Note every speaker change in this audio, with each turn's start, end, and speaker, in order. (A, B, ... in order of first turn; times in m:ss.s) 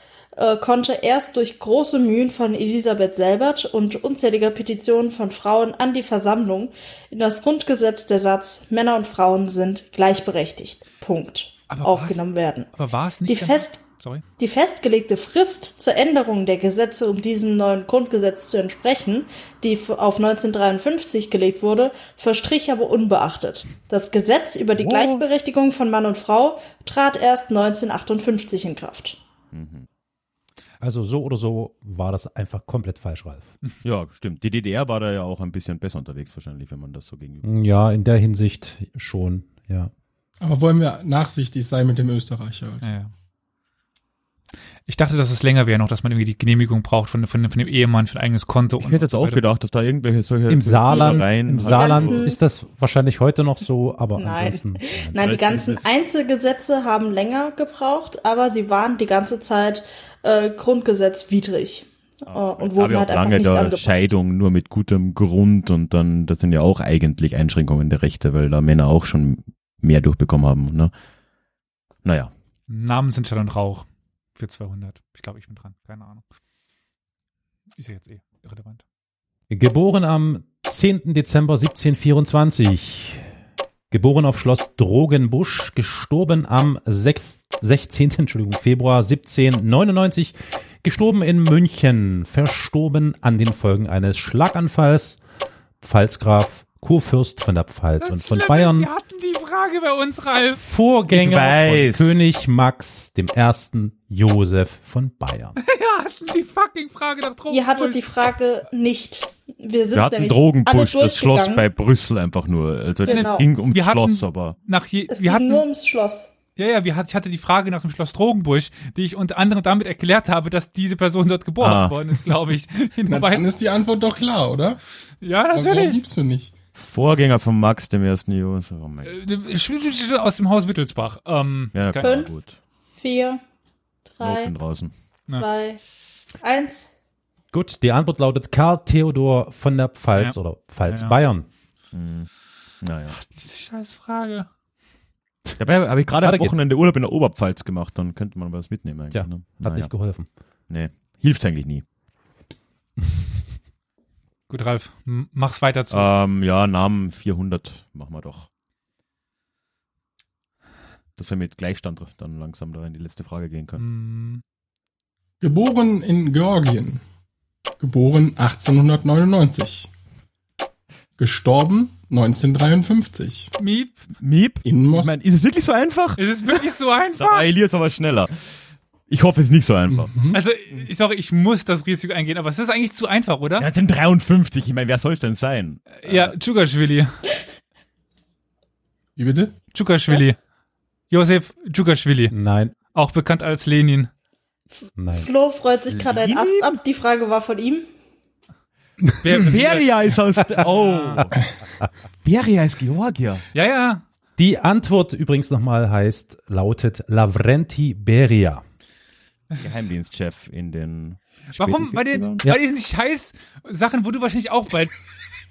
0:00.4-0:12.7 A
0:11.7-0:12.2 B
0:12.7-0:14.2 B
0:13.3-0:13.8 A
0:14.4-0:29.2 A
0:24.8-0:25.2 C
0:29.5-0:29.9 C
0:30.8-0:33.5 D
0:33.8-0:37.5 C
0:37.4-0:39.9 D
0:40.4-0:42.9 E
0:42.8-0:43.1 B
0:44.9-0:49.4 B
0:48.8-0:52.2 C
0:50.5-0:55.3 D
0:50.9-0:52.4 A
0:54.2-1:04.1 A
0:55.2-0:55.8 C
1:02.3-1:10.9 C
1:12.0-1:12.3 C
1:12.7-1:13.9 B
1:14.4-1:16.2 B
1:17.8-1:18.8 B
1:19.5-1:23.3 D
1:23.9-1:35.2 D
1:35.8-1:38.9 D
1:38.0-1:40.6 B
1:40.6-1:45.6 D
1:41.1-1:42.2 C
1:45.6-1:48.0 B
1:47.5-1:51.6 A
1:49.9-1:54.6 C
1:53.0-1:53.5 A
1:53.1-1:55.6 B
1:55.1-1:56.3 A
1:56.6-2:03.5 B
2:01.6-2:02.1 C
2:03.1-2:04.8 E
2:05.2-2:06.0 B
2:05.5-2:06.5 E
2:06.8-2:09.2 C
2:09.0-2:12.2 B
2:11.7-2:12.6 C
2:12.0-2:12.3 A
2:13.0-2:13.4 A
2:14.1-2:14.5 A
2:14.2-2:14.9 C
2:15.3-2:15.8 A
2:16.4-2:16.9 A
2:17.5-2:21.5 D
2:20.9-2:21.2 B
2:21.9-2:22.3 C
2:22.8-2:23.2 C
2:23.2-2:24.5 B
2:25.6-2:29.9 C
2:26.2-2:26.6 D
2:29.1-2:30.3 D
2:30.7-2:31.8 C
2:34.5-2:36.0 B
2:35.9-2:38.5 C
2:41.2-2:43.8 C
2:43.8-2:44.4 B
2:45.4-2:47.0 E
2:47.8-2:49.9 E
2:51.2-2:53.5 E
2:53.6-2:54.0 B
2:54.2-2:56.2 C
2:54.6-2:55.1 E
2:56.2-2:57.5 B
2:57.2-2:58.5 C
2:59.1-3:00.1 C
2:59.9-3:00.4 E
3:00.3-3:03.7 B
3:03.6-3:06.4 C
3:06.0-3:07.2 B
3:09.2-3:09.5 E
3:09.7-3:10.4 B
3:11.1-3:12.4 B
3:12.3-3:12.8 D
3:12.9-3:14.1 B
3:14.8-3:17.9 A
3:15.0-3:15.3 D
3:15.9-3:16.8 C
3:19.2-3:20.0 B
3:19.3-3:21.5 C
3:20.6-3:21.2 B
3:20.6-3:21.2 D
3:22.2-3:23.5 C
3:23.5-3:24.0 B
3:24.4-3:28.6 D
3:29.6-3:32.4 C
3:31.5-3:35.0 B